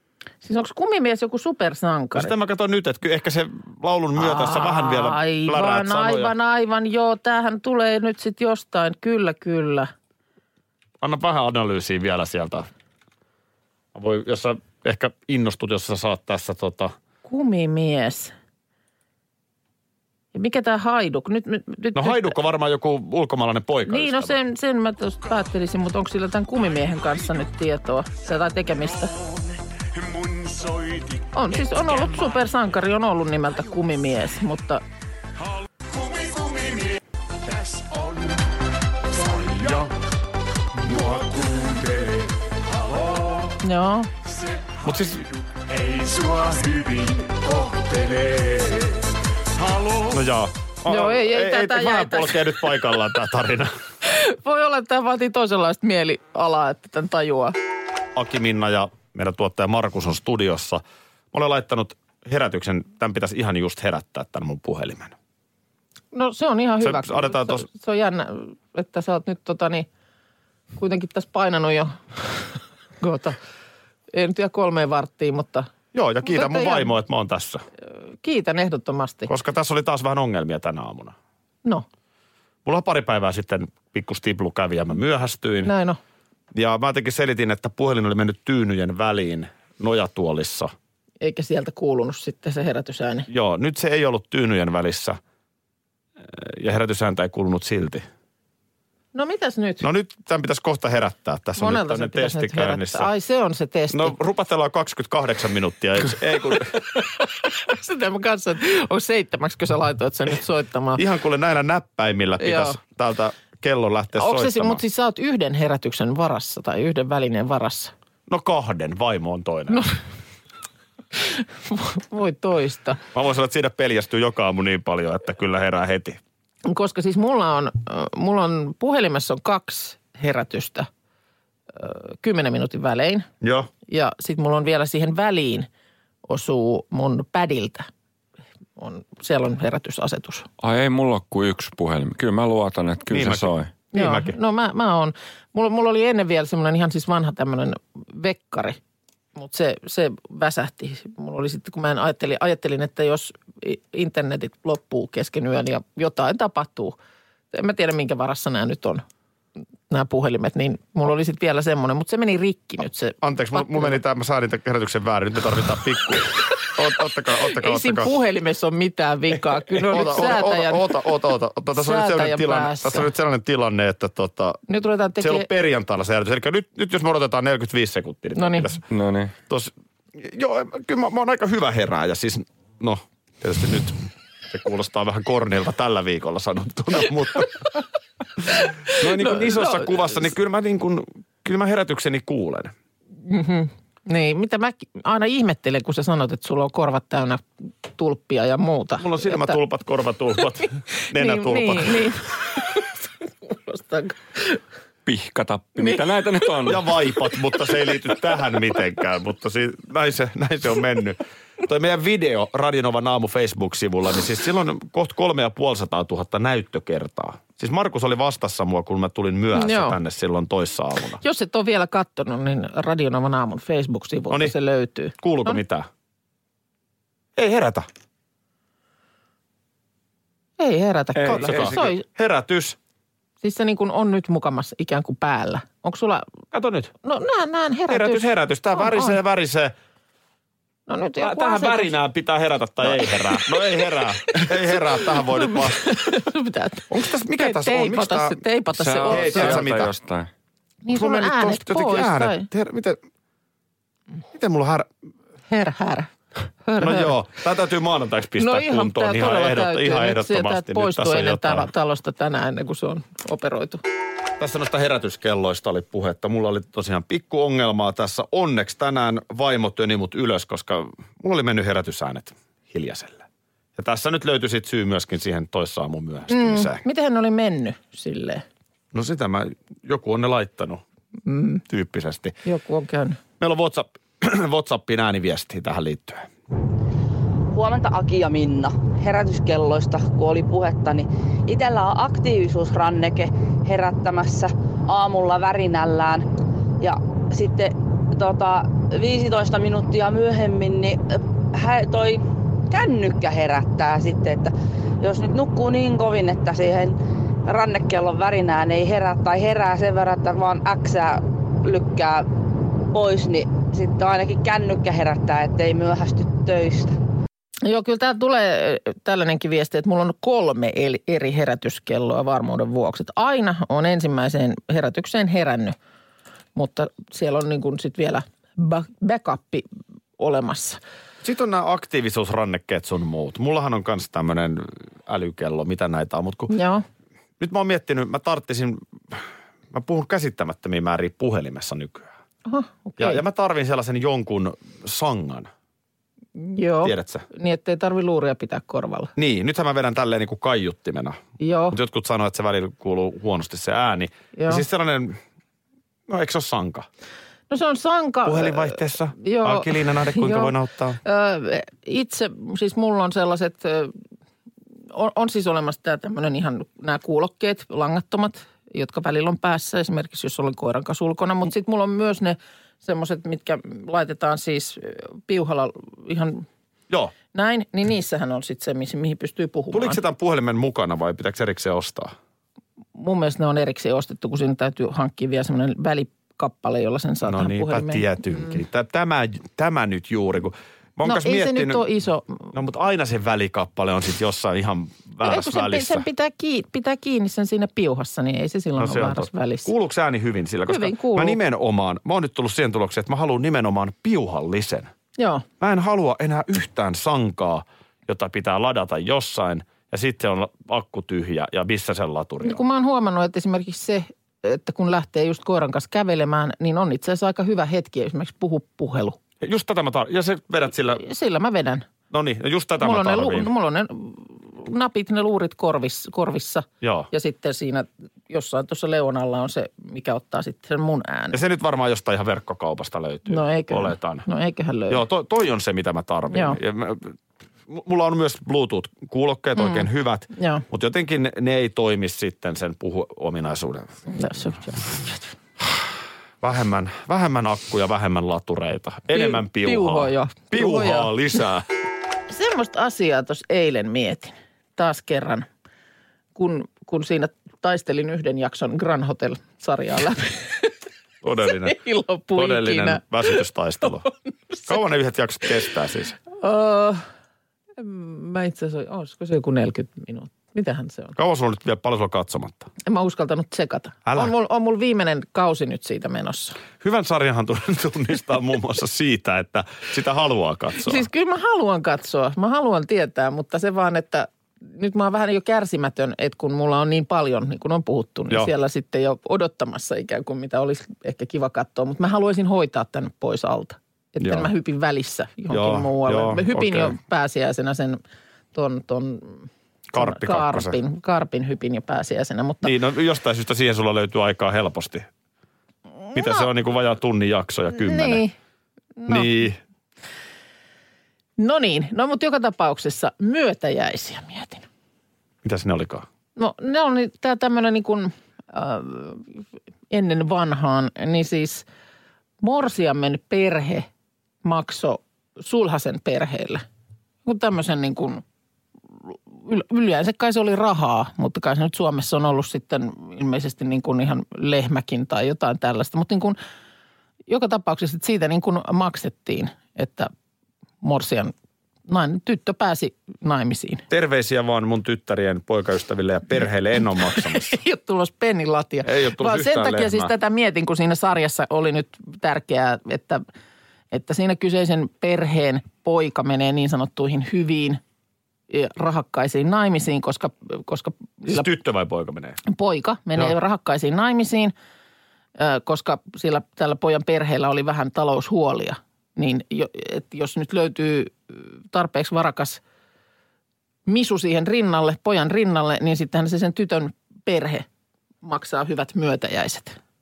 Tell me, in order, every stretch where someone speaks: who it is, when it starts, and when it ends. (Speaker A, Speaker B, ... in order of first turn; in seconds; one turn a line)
Speaker A: 0.4-2.3
Speaker B: 2.1-6.3
Speaker A: 4.2-9.9
Speaker B: 11.0-12.7
Speaker B: 13.9-16.9
Speaker A: 17.3-18.3
Speaker A: 20.3-22.4
Speaker B: 21.9-24.4
Speaker A: 23.9-29.1
Speaker C: 26.6-27.4
Speaker C: 28.5-32.7
Speaker A: 31.3-34.8
Speaker C: 35.4-38.5
Speaker C: 39.0-40.0
Speaker C: 40.7-43.6
Speaker A: 43.6-44.1
Speaker C: 44.3-50.2
Speaker B: 44.9-45.3
Speaker B: 50.1-53.7
Speaker A: 50.9-52.5
Speaker A: 54.0-57.5
Speaker B: 58.1-65.1
Speaker A: 66.1-69.9
Speaker B: 66.8-67.7
Speaker A: 70.8-72.4
Speaker A: 73.0-73.4
Speaker A: 74.1-75.7
Speaker B: 75.9-77.6
Speaker A: 76.3-76.9
Speaker A: 77.9-79.3
Speaker B: 79.3-81.2
Speaker B: 82.7-85.7
Speaker A: 85.6-86.0
Speaker B: 86.5-90.7
Speaker A: 91.2-93.3
Speaker B: 93.3-95.2
Speaker B: 96.2-98.1
Speaker A: 99.1-99.9
Speaker B: 99.8-103.1
Speaker A: 101.6-104.2
Speaker B: 103.9-106.8
Speaker A: 106.9-111.0
Speaker B: 111.0-114.8
Speaker A: 112.4-112.8
Speaker A: 114.1-117.9
Speaker B: 118.3-119.9
Speaker A: 121.2-123.0
Speaker B: 123.1-126.2
Speaker A: 126.7-130.9
Speaker A: 131.7-133.3
Speaker B: 133.4-133.7
Speaker A: 133.9-135.7
Speaker A: 136.3-137.9
Speaker A: 138.8-140.5
Speaker D: 140.6-143.7
Speaker B: 143.1-144.3
Speaker A: 143.9-148.8
Speaker A: 149.4-157.0
Speaker A: 157.5-159.1
Speaker A: 159.9-164.0
Speaker B: 163.2-168.1
Speaker A: 167.4-170.9
Speaker B: 169.8-174.6
Speaker A: 171.7-173.1
Speaker A: 174.7-175.5
Speaker B: 175.2-178.8
Speaker A: 178.3-178.7
Speaker D: 178.9-179.3
Speaker B: 179.5-187.8
Speaker B: 188.5-192.7
Speaker A: 188.5-189.9
Speaker A: 193.2-199.6
Speaker B: 199.0-202.2
Speaker A: 201.1-204.6
Speaker D: 205.1-206.8
Speaker B: 206.7-221.2
Speaker A: 219.6-220.0
Speaker A: 221.2-225.6
Speaker B: 224.3-224.6
Speaker B: 225.2-225.9
Speaker B: 227.4-227.9
Speaker A: 230.6-232.0
Speaker D: 231.2-231.7
Speaker B: 231.3-232.8
Speaker A: 233.4-236.3
Speaker B: 236.5-236.9
Speaker A: 237.0-239.2
Speaker B: 237.9-239.7
Speaker A: 240.9-242.0
Speaker B: 241.2-246.1
Speaker A: 242.9-243.5
Speaker A: 244.3-249.6
Speaker B: 246.9-248.4
Speaker D: 248.8-250.3
Speaker B: 249.1-249.9
Speaker A: 250.8-252.5
Speaker B: 250.9-253.0
Speaker B: 254.3-254.9
Speaker A: 255.5-256.1
Speaker A: 256.6-257.1
Speaker B: 256.8-261.7
Speaker A: 258.4-263.8
Speaker B: 264.4-273.2
Speaker B: 273.8-276.8
Speaker A: 276.3-278.4
Speaker B: 278.9-280.8
Speaker A: 281.3-281.6
Speaker B: 281.6-282.4
Speaker A: 282.4-283.2
Speaker B: 283.4-286.3
Speaker E: 287.5-296.3
Speaker E: 296.8-312.3
Speaker E: 312.9-317.0
Speaker A: 317.6-325.8
Speaker A: 326.6-329.7
Speaker A: 330.2-330.8
Speaker B: 331.2-336.5
Speaker A: 336.5-336.8
Speaker B: 337.4-342.1
Speaker A: 342.5-343.2
Speaker B: 343.0-345.5
Speaker A: 346.4-349.1
Speaker B: 346.8-347.3
Speaker B: 349.2-351.2
Speaker A: 351.4-351.8
Speaker B: 351.7-355.2
Speaker A: 354.3-354.6
Speaker B: 356.1-356.9
Speaker A: 357.5-363.9
Speaker B: 358.2-361.0
Speaker A: 364.9-376.5
Speaker A: 377.3-380.0
Speaker B: 379.7-382.1
Speaker A: 382.9-388.1
Speaker B: 387.2-391.8
Speaker A: 391.1-392.5
Speaker B: 392.5-396.1
Speaker A: 395.2-399.7
Speaker B: 398.8-404.9
Speaker A: 400.7-401.4
Speaker A: 405.2-405.5
Speaker B: 405.6-412.6
Speaker A: 412.4-419.2
Speaker B: 419.4-421.0
Speaker A: 421.0-421.9
Speaker B: 422.1-423.5
Speaker A: 422.8-431.4
Speaker B: 426.8-427.1
Speaker B: 431.3-434.2
Speaker A: 433.3-435.0
Speaker B: 434.9-437.2
Speaker A: 436.3-436.6
Speaker B: 437.7-444.0
Speaker A: 439.6-440.6
Speaker A: 444.1-445.3
Speaker B: 446.4-451.7
Speaker A: 449.1-451.1
Speaker A: 452.3-455.5
Speaker A: 456.4-460.7
Speaker B: 461.2-461.8
Speaker A: 461.5-463.4
Speaker B: 462.4-464.1
Speaker A: 464.5-464.8
Speaker B: 464.7-466.2
Speaker A: 466.3-467.1
Speaker A: 467.8-471.2
Speaker B: 471.2-472.7
Speaker A: 472.9-476.6
Speaker B: 474.1-474.3
Speaker B: 476.8-481.0
Speaker A: 480.8-498.0
Speaker B: 494.2-494.5
Speaker B: 495.5-497.0
Speaker A: 498.5-502.7
Speaker B: 499.9-500.8
Speaker B: 502.6-505.1
Speaker A: 506.1-506.5
Speaker B: 506.1-508.2
Speaker A: 507.8-508.3
Speaker A: 509.0-509.4
Speaker B: 509.1-509.6
Speaker A: 511.4-514.7
Speaker B: 515.4-516.1
Speaker A: 516.4-519.3
Speaker A: 519.9-521.7
Speaker A: 522.4-523.9
Speaker A: 524.4-526.6
Speaker A: 527.2-528.2
Speaker A: 529.1-536.4
Speaker A: 537.3-540.1
Speaker A: 540.8-541.3
Speaker A: 541.9-543.8
Speaker B: 543.9-547.6
Speaker A: 547.1-553.2
Speaker B: 548.8-550.1
Speaker A: 553.9-557.8
Speaker A: 558.5-561.5
Speaker B: 561.3-562.4
Speaker A: 562.4-564.5
Speaker A: 565.4-572.6
Speaker A: 573.9-577.7
Speaker A: 578.2-579.8